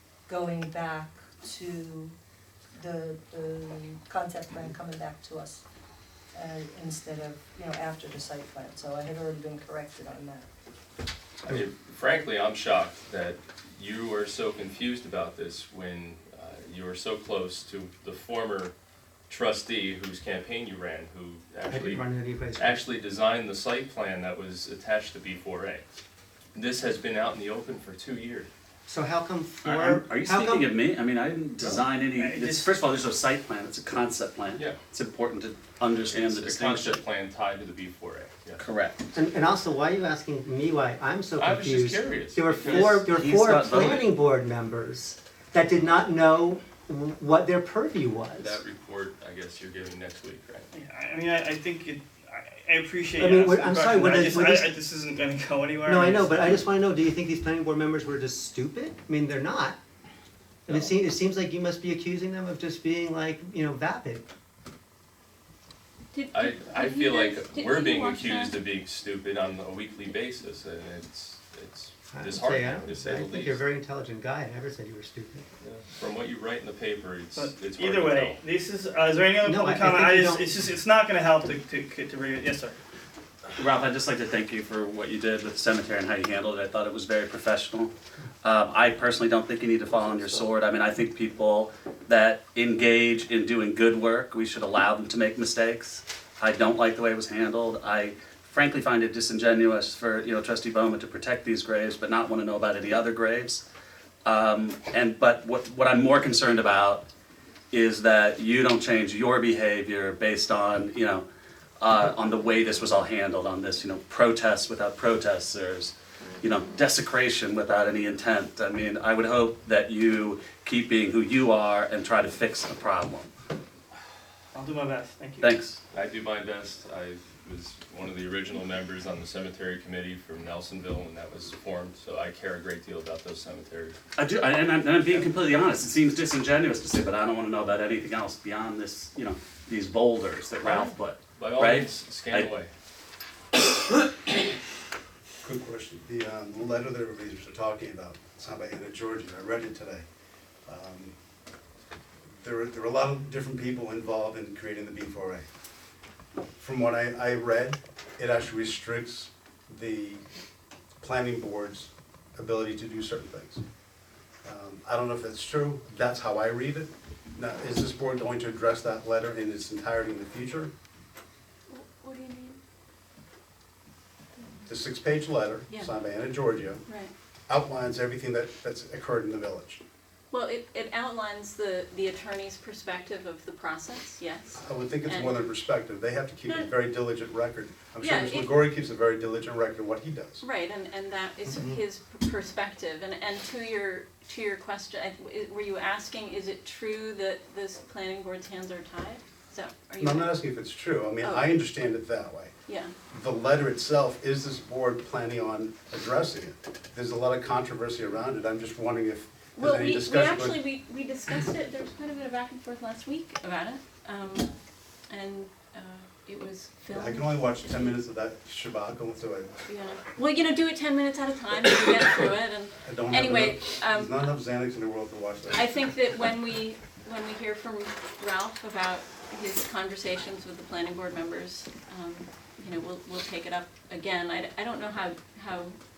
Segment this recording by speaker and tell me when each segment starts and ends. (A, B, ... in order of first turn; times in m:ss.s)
0:00.3-0:02.1 A
0:02.7-0:05.6 A
0:06.3-0:10.5 A
0:11.5-0:18.7 B
0:19.3-0:25.8 B
0:21.6-0:22.8 C
0:26.5-0:28.5 B
0:28.9-0:30.7 C
0:29.6-0:37.0 D
0:32.2-0:32.7 E
0:36.1-0:38.6 B
0:38.6-0:39.1 D
0:39.1-0:48.6 C
0:41.4-0:43.1 B
0:43.0-0:44.1 D
0:48.4-0:50.7 B
0:50.7-0:56.6 E
0:53.2-0:54.7 C
0:55.8-0:59.8 C
1:00.6-1:04.2 C
1:06.1-1:08.6 F
1:06.3-1:13.6 B
1:12.1-1:15.4 C
1:15.6-1:18.4 B
1:17.4-1:22.8 E
1:19.4-1:20.5 C
1:23.6-1:27.9 D
1:28.4-1:43.6 D
1:44.2-1:47.0 D
1:47.7-1:51.2 D
1:51.8-2:03.3 D
2:04.5-2:05.5 E
2:05.4-2:05.8 D
2:05.9-2:14.0 B
2:14.2-2:22.5 D
2:20.6-2:22.7 B
2:25.4-2:30.0 G
2:30.6-2:31.1 G
2:32.4-2:35.4 G
2:36.6-2:40.2 G
2:41.0-2:43.6 G
2:44.4-2:50.7 G
2:51.7-2:52.6 F
2:54.7-2:56.8 G
2:56.9-2:57.1 F
2:57.5-2:59.8 G
3:00.3-3:04.5 F
3:04.5-3:10.4 G
3:05.0-3:05.3 F
3:06.4-3:06.7 F
3:08.0-3:08.5 F
3:10.4-3:20.3 F
3:20.0-3:22.5 G
3:21.2-3:21.5 F
3:22.7-3:22.9 F
3:23.1-3:30.6 G
3:29.6-3:34.5 F
3:35.1-3:38.0 F
3:36.9-3:39.5 G
3:39.7-3:44.2 F
3:42.8-3:45.7 G
3:45.5-3:55.8 F